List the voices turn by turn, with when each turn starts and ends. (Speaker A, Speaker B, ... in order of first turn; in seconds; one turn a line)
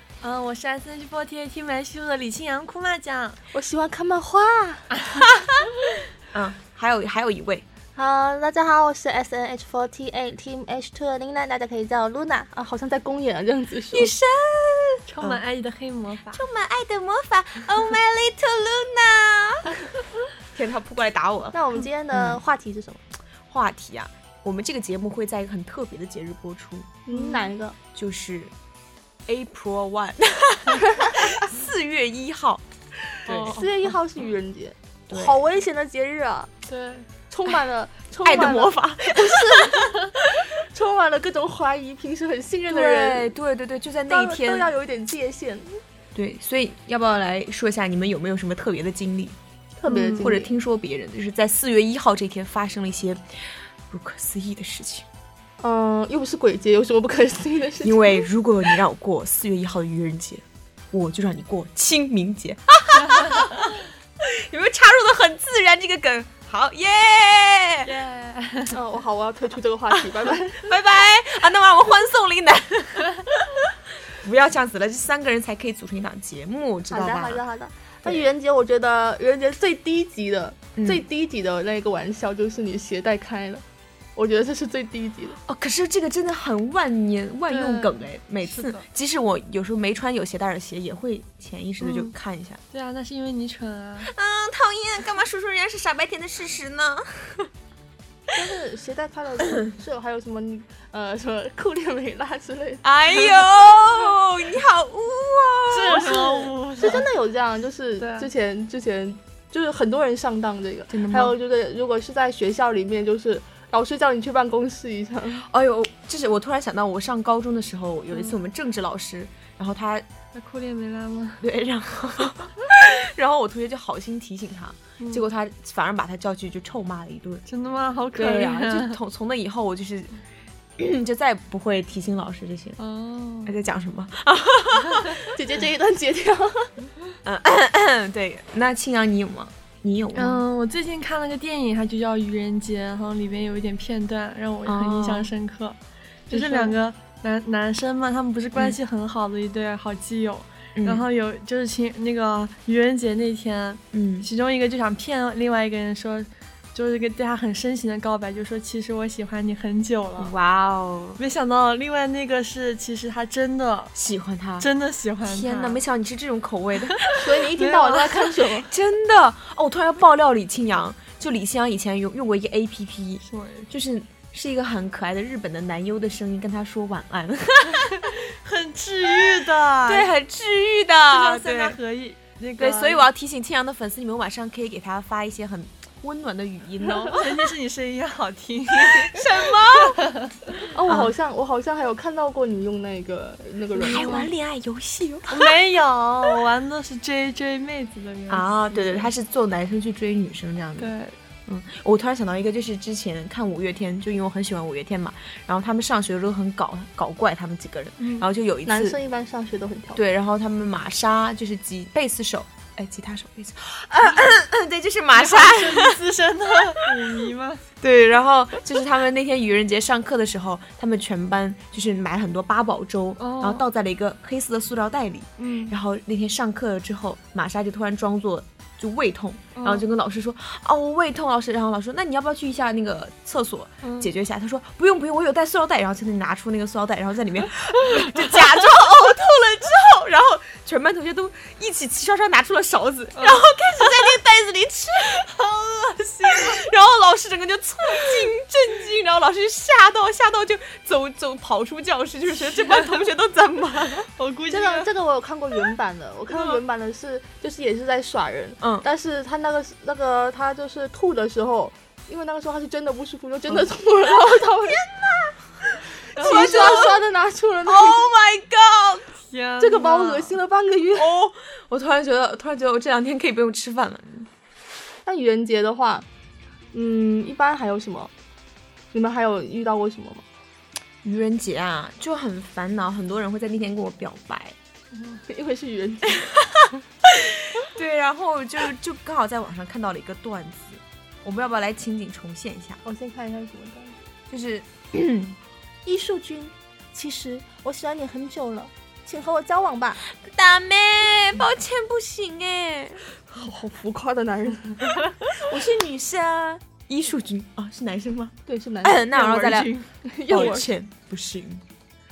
Speaker A: 0.2-3.4
Speaker B: 3.5-4.9
Speaker A: 5.0-5.2
Speaker C: 6.2-7.7
Speaker B: 8.0-14.1
Speaker C: 13.9-15.4
Speaker A: 15.1-16.4
Speaker C: 16.3-19.8
Speaker C: 20.5-21.6
Speaker B: 21.5-23.0
Speaker C: 22.1-22.4
Speaker C: 23.5-26.9
Speaker B: 27.1-27.8
Speaker A: 27.1-27.5
Speaker C: 27.9-28.5
Speaker C: 29.2-32.6
Speaker C: 33.2-33.6
Speaker A: 33.2-33.9
Speaker B: 33.4-36.5
Speaker C: 35.1-35.4
Speaker A: 36.7-37.1
Speaker B: 37.3-43.3
Speaker C: 38.2-40.0
Speaker C: 42.7-44.7
Speaker B: 44.1-45.8
Speaker C: 46.1-49.4
Speaker B: 49.8-50.5
Speaker A: 49.9-50.3
Speaker C: 50.2-53.2
Speaker C: 53.9-55.0
Speaker B: 55.6-58.2
Speaker C: 57.8-67.9
Speaker A: 67.8-68.8
Speaker B: 68.7-70.7
Speaker C: 69.9-77.4
Speaker B: 76.9-83.6
Speaker C: 80.8-81.0
Speaker B: 84.2-85.4
Speaker C: 85.4-92.6
Speaker A: 87.5-88.8
Speaker A: 91.8-92.1
Speaker A: 92.7-94.1
Speaker C: 94.0-97.5
Speaker B: 98.3-102.8
Speaker C: 102.8-107.0
Speaker A: 105.7-107.1
Speaker B: 106.8-115.5
Speaker A: 108.0-108.3
Speaker C: 110.9-111.3
Speaker C: 115.4-120.0
Speaker A: 120.3-121.4
Speaker C: 121.4-127.5
Speaker A: 127.5-129.0
Speaker C: 128.1-130.2
Speaker C: 130.8-132.8
Speaker A: 132.8-133.6
Speaker C: 133.4-135.3
Speaker B: 135.3-136.7
Speaker C: 137.2-140.4
Speaker A: 140.1-145.8
Speaker C: 144.7-145.3
Speaker A: 146.3-160.3
Speaker B: 146.3-146.7
Speaker C: 150.8-151.1
Speaker C: 153.9-154.3
Speaker C: 160.2-161.2
Speaker A: 161.2-163.9
Speaker C: 163.9-164.7
Speaker A: 164.6-165.8
Speaker C: 165.2-167.1
Speaker A: 166.9-168.3
Speaker B: 167.2-168.7
Speaker C: 168.7-178.2
Speaker A: 173.2-173.7
Speaker A: 177.9-180.1
Speaker C: 179.1-181.8
Speaker A: 181.1-183.1
Speaker C: 182.6-187.5
Speaker A: 187.1-190.3
Speaker C: 188.7-190.0
Speaker B: 190.7-194.3
Speaker C: 190.8-191.1
Speaker C: 193.8-195.5
Speaker A: 193.8-194.2
Speaker A: 195.3-199.1
Speaker C: 198.3-200.9
Speaker A: 200.8-201.1
Speaker C: 201.5-209.0
Speaker A: 208.0-208.3
Speaker B: 208.7-210.0
Speaker C: 209.9-216.0
Speaker A: 215.1-217.6
Speaker C: 216.8-217.2
Speaker C: 217.8-245.3
Speaker A: 223.2-223.6
Speaker A: 225.4-225.7
Speaker A: 229.5-229.8
Speaker A: 233.8-234.1
Speaker A: 243.2-244.0
Speaker A: 245.1-246.6
Speaker C: 246.2-254.1
Speaker A: 252.5-253.0
Speaker A: 254.1-254.9
Speaker B: 254.5-264.8
Speaker C: 258.6-258.9
Speaker C: 264.3-267.0
Speaker B: 266.1-268.1
Speaker A: 266.2-266.6
Speaker C: 267.6-269.1
Speaker A: 269.3-270.4
Speaker B: 269.6-271.1
Speaker C: 270.9-274.3
Speaker B: 275.1-276.1
Speaker B: 276.7-278.1
Speaker B: 278.9-280.2
Speaker C: 281.0-284.6
Speaker B: 285.1-286.3
Speaker C: 286.2-292.8
Speaker B: 292.8-293.9
Speaker C: 294.3-295.4
Speaker B: 295.9-300.0
Speaker C: 300.1-303.1
Speaker B: 303.3-305.0
Speaker C: 305.3-309.7
Speaker B: 308.5-310.7
Speaker A: 309.1-310.5
Speaker C: 310.3-311.6